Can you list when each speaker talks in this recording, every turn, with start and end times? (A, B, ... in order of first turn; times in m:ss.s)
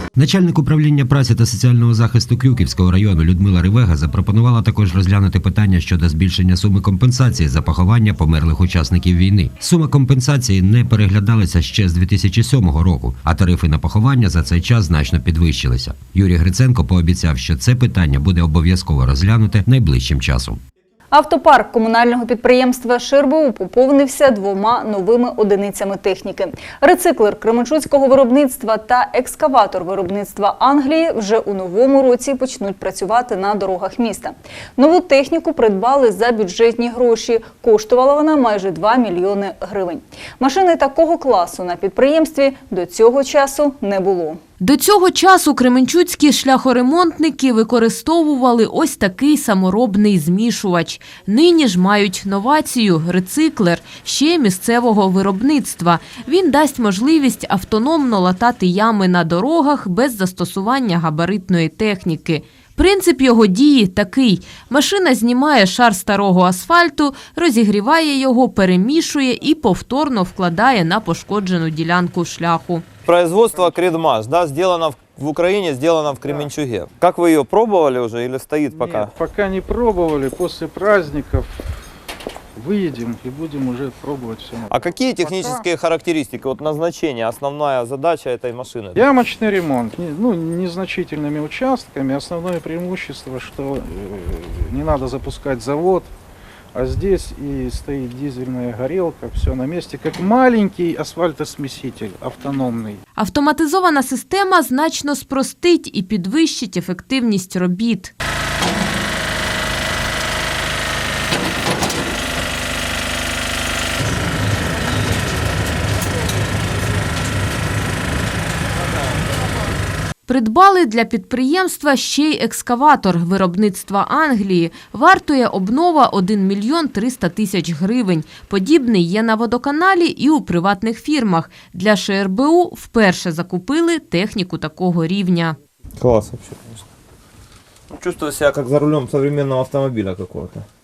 0:00.2-0:20.6 A
0:21.1-0:44.4 B
0:44.6-1:12.8 C
1:13.1-1:19.1 D
1:13.5-1:13.8 E
1:18.7-1:21.5 E
1:22.6-1:25.7 E
1:24.7-1:29.0 D
1:29.0-1:36.1 E
1:36.8-1:43.0 E
1:43.2-1:48.1 C
2:00.3-2:15.6 C
2:16.0-2:16.8 D
2:17.9-2:20.6 D